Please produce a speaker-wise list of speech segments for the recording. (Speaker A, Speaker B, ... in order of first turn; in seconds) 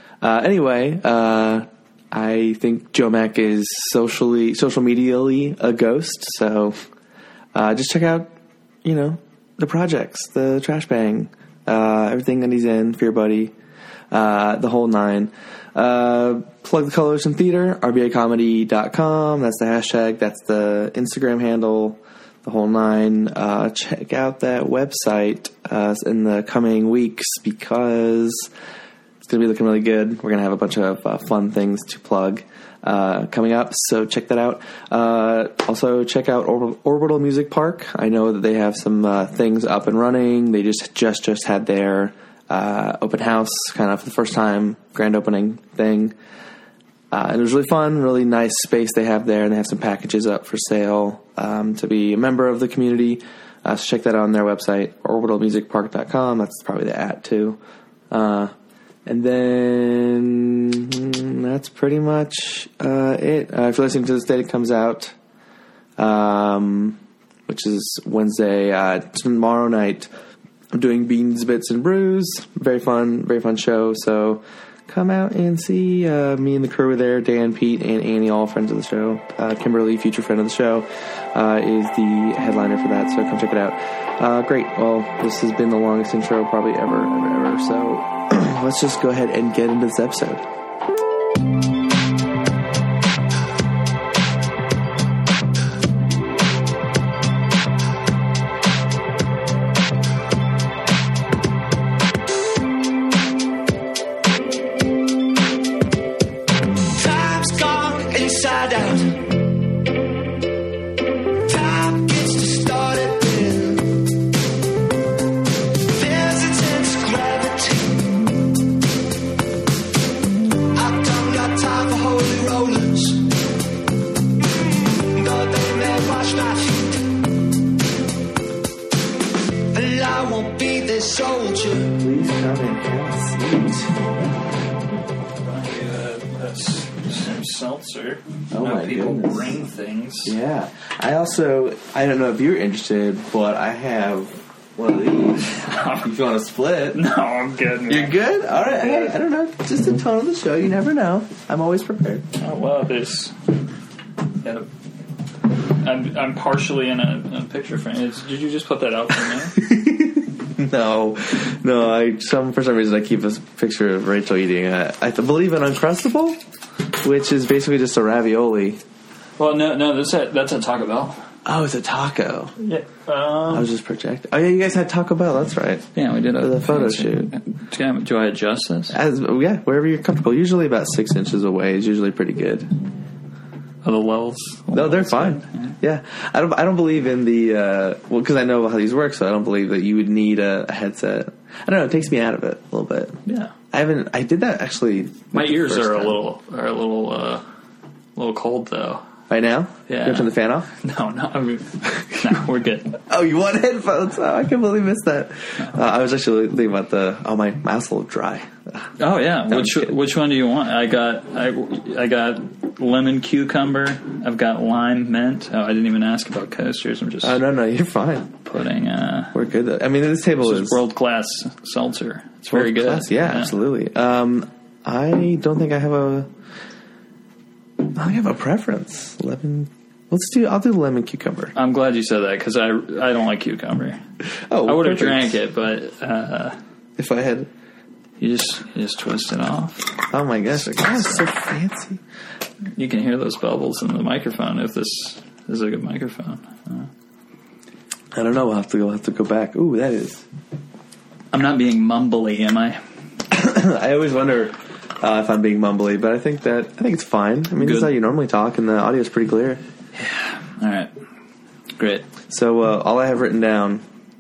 Speaker A: 0.2-6.8, 7.5-8.3, 8.8-13.5, 14.1-28.5, 29.2-46.1, 47.1-57.6, 58.1-58.5, 59.1-65.1, 66.0-70.1, 70.7-90.4, 131.9-134.0, 138.5-139.6, 140.2-147.0, 147.9-152.2, 159.5-166.4, 167.0-168.8, 171.4-172.5, 173.5-175.8, 176.4-177.3, 178.9-182.7, 184.7-193.2, 193.7-196.2, 199.3-200.7, 201.9-202.2, 203.1-208.5, 209.5-209.9, 217.2-218.3, 219.3-220.8, 222.5-226.3, 227.9-231.5, 234.5-235.4, 237.0-237.5, 240.1-242.0, 248.1-250.2, 253.3-259.6, 262.3-263.8
Speaker B: 106.9-109.2, 111.4-114.0, 115.9-118.2, 120.7-123.3, 125.1-127.1, 129.7-131.9
Speaker C: 135.4-140.3, 145.5-146.1, 146.9-149.2, 152.3-153.3, 154.4-154.7, 155.7-159.6, 169.4-171.2, 172.6-173.7, 175.9-178.9, 183.8-185.7, 193.2-193.5, 195.3-197.4, 198.2-199.0, 199.9-203.0, 209.0-217.4, 218.4-219.3, 220.4-223.5, 231.5-234.0, 234.7-236.6, 238.2-240.0, 240.5-241.3, 242.8-246.9, 251.3-252.8, 257.6-257.9, 259.9-260.9, 261.8-262.1